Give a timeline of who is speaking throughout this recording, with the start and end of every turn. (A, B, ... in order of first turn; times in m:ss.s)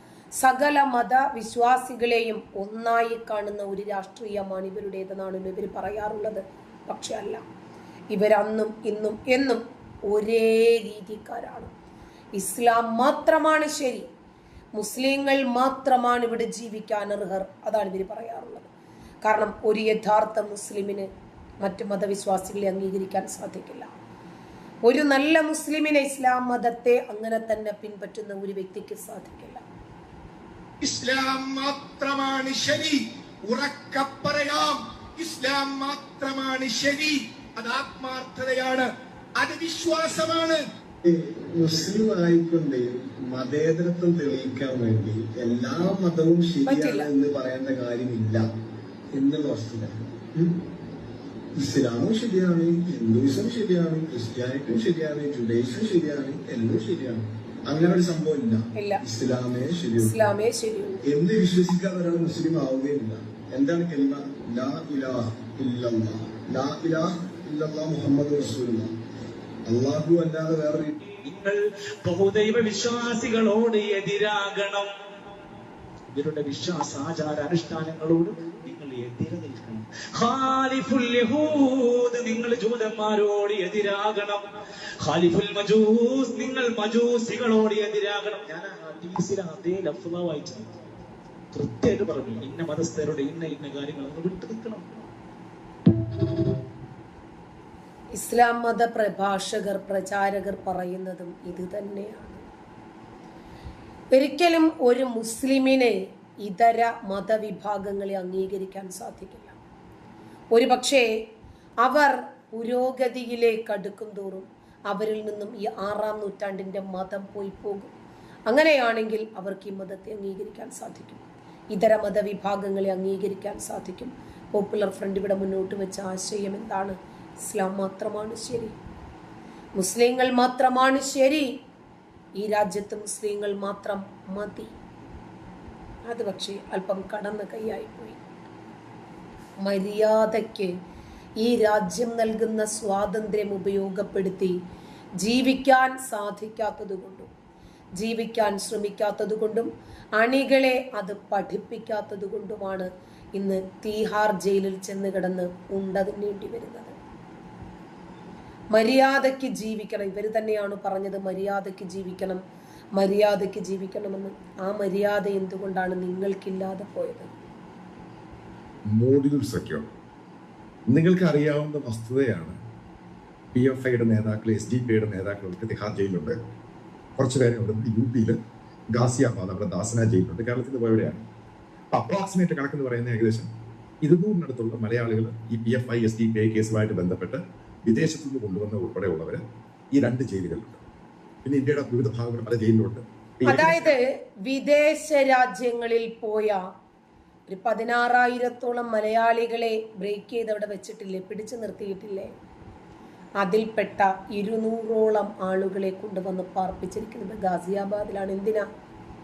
0:00.4-0:07.4 A
0:08.1-0:11.7 A
0:12.3-0:14.1 A
0:14.8-0:18.7 A
0:19.2-0:21.1 A
0:21.6-0:23.9 A
0:24.8-0:29.6 A
0:30.8-0:38.9 B
0:39.4-0:40.6 B
0:41.0-0:48.4 C
0:46.7-0:47.1 A
0:49.1-0:50.6 C
0:51.6-1:00.2 C
0:58.8-0:59.0 A
1:00.0-1:01.0 A
1:01.0-1:08.9 C
1:09.6-1:11.0 C
1:11.2-1:14.9 D
1:16.1-1:24.4 D
1:25.0-1:30.7 D
1:31.5-1:35.1 D
1:38.1-1:42.4 A
1:44.1-1:49.6 A
1:50.5-1:51.1 A
1:51.8-1:57.9 A
1:58.5-2:08.8 A
2:09.8-2:11.5 A
2:12.4-2:14.8 A
2:16.1-2:18.2 A
2:19.6-2:20.7 A
2:21.4-2:24.5 A
2:25.2-2:27.3 A
2:28.0-2:36.9 A
2:38.7-2:42.4 A
2:43.0-2:47.3 A
2:48.9-2:49.8 E
2:50.9-2:52.6 E
2:53.5-2:56.4 E
2:57.2-2:58.4 E
2:58.9-3:01.2 E
3:01.9-3:03.5 E
3:04.0-3:09.4 E
3:09.9-3:10.8 E
3:11.4-3:13.9 E
3:13.4-3:16.6 A
3:17.5-3:22.3 A
3:23.4-3:28.6 A